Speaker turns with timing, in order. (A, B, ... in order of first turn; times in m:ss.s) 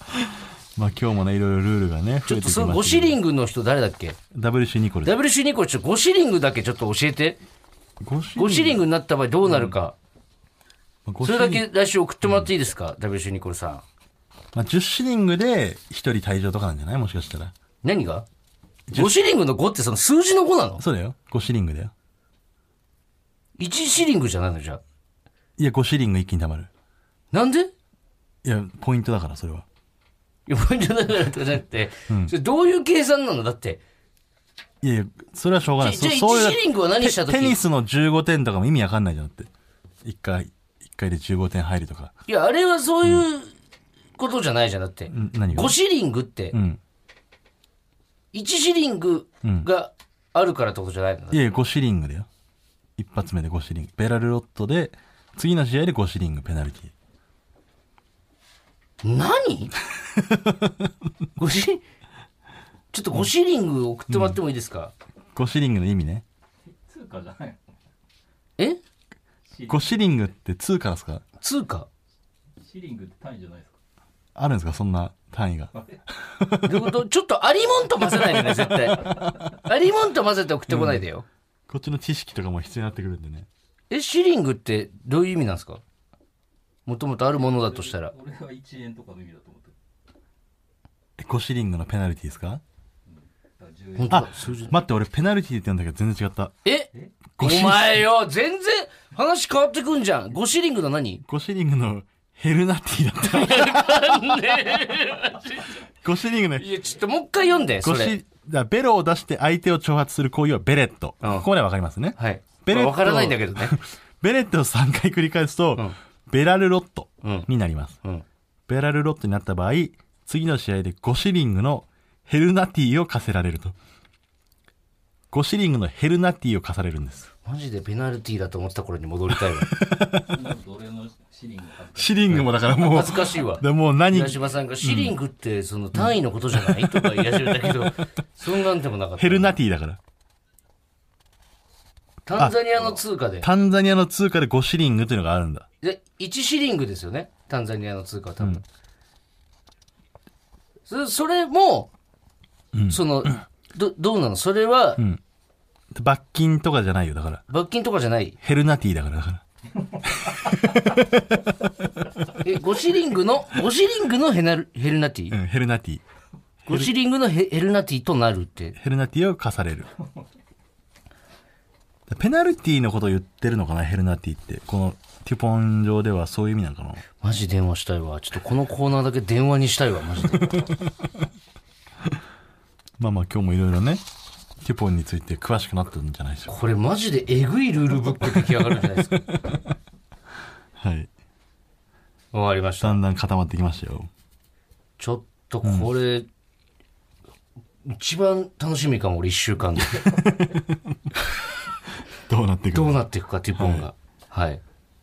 0:00.8-0:03.2 A
0:02.2-0:04.2 B
0:04.3-0:05.2 A
0:05.0-0:07.4 B
0:08.0-0:08.8 A
0:08.4-0:10.0 B
0:09.5-0:09.7 A
0:11.0-0:11.6 A
0:11.2-0:13.8 B
0:14.5-0:17.5 A
0:17.8-0:18.2 B
0:18.9-0:19.1 A
0:18.9-0:20.8 B
0:20.8-0:21.9 A
0:23.6-0:24.8 B
0:25.6-0:26.7 A
0:27.3-0:27.7 B
0:28.4-0:29.6 A
0:30.5-0:33.8 B
0:32.1-0:32.3 A
0:34.8-0:39.5 A
0:35.8-0:37.6 B
0:40.0-0:42.1 A
0:42.3-0:43.5 B
0:44.2-0:46.6 B
0:45.1-0:45.8 A
0:46.5-0:46.8 A
0:48.3-0:51.4 B
0:51.3-0:52.3 A
0:53.0-0:56.9 A
0:59.0-0:59.7 B
1:00.3-1:00.7 A
1:01.4-1:01.8 B
1:02.9-1:04.9 B
1:04.1-1:04.4 A
1:05.3-1:06.2 A
1:06.9-1:07.6 C
1:09.6-1:11.2 A
1:11.4-1:11.9 B
1:12.6-1:13.7 C
1:14.3-1:16.9 A
1:16.6-1:21.2 B
1:20.7-1:21.0 A
1:21.7-1:23.5 A
1:23.9-1:25.8 B
1:26.8-1:28.1 B
1:27.9-1:29.7 C
1:31.2-1:32.6 A
1:33.6-1:34.1 C
1:34.0-1:34.7 B
1:34.1-1:36.5 A
1:36.6-1:41.2 B
1:37.4-1:38.0 A
1:41.2-1:44.7 A
1:43.2-1:45.8 B
1:46.0-1:46.7 A
1:46.6-1:48.1 B
1:47.8-1:58.0 A
1:52.2-1:53.8 B
1:57.2-1:57.5 B
1:58.7-2:03.7 A
2:05.3-2:07.3 A
2:07.4-2:09.7 B
2:09.3-2:10.4 A
2:10.3-2:12.3 C
2:11.9-2:15.2 A
2:12.8-2:19.5 B
2:16.0-2:18.0 A
2:19.2-2:20.0 A
2:22.2-2:23.5 B
2:22.4-2:22.8 A
2:23.4-2:25.6 A
2:25.8-2:28.6 B
2:30.8-2:31.9 B
2:32.7-2:33.4 A
2:32.9-2:35.0 B
2:35.9-2:37.4 A
2:37.5-2:38.4 B
2:38.4-2:39.4 A
2:40.0-2:41.5 A
2:42.3-2:45.4 B
2:45.3-2:46.0 A
2:46.6-2:46.9 A
2:46.7-2:48.8 B
2:48.8-2:49.9 A
2:52.1-2:57.0 A
2:57.2-3:00.5 B
3:00.4-3:00.8 A
3:03.0-3:04.0 A
3:04.6-3:06.5 A
3:06.5-3:09.3 B
3:08.2-3:08.6 A
3:09.3-3:09.6 A
3:10.8-3:11.1 A
3:12.3-3:13.0 B
3:12.8-3:14.1 A
3:15.0-3:16.3 B
3:15.6-3:15.9 A
3:17.8-3:20.2 B
3:19.8-3:21.2 A
3:22.1-3:23.0 A
3:22.7-3:24.6 B
3:23.6-3:23.9 A